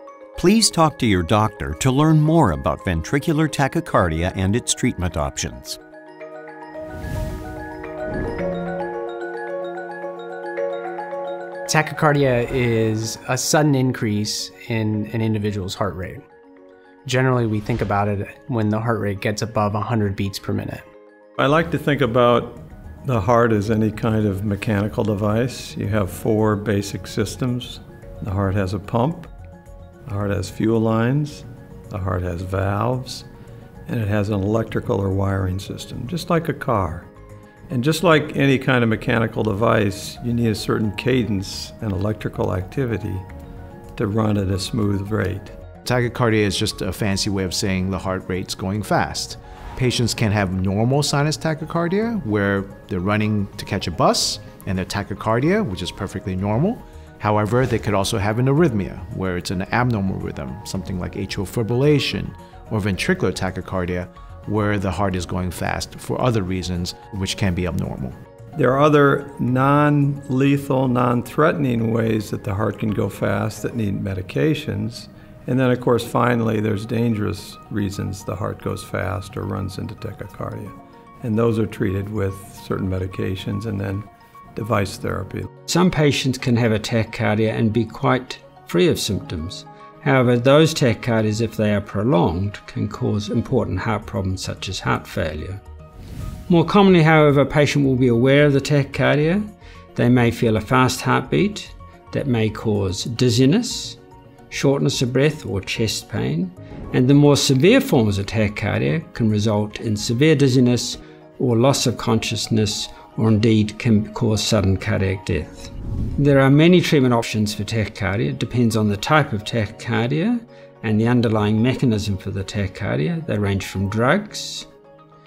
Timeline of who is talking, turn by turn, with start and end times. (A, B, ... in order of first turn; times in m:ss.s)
0:00.4-0:05.8 A
0:11.7-0:16.2 B
0:17.0-0:20.8 B
0:21.4-0:29.3 C
0:30.1-0:33.3 C
0:33.9-0:37.1 C
0:37.7-0:43.2 C
0:44.0-0:45.5 C
0:45.8-1:08.2 D
1:08.5-1:25.5 C
1:25.7-1:35.6 E
1:36.5-1:44.0 E
1:44.5-2:04.7 E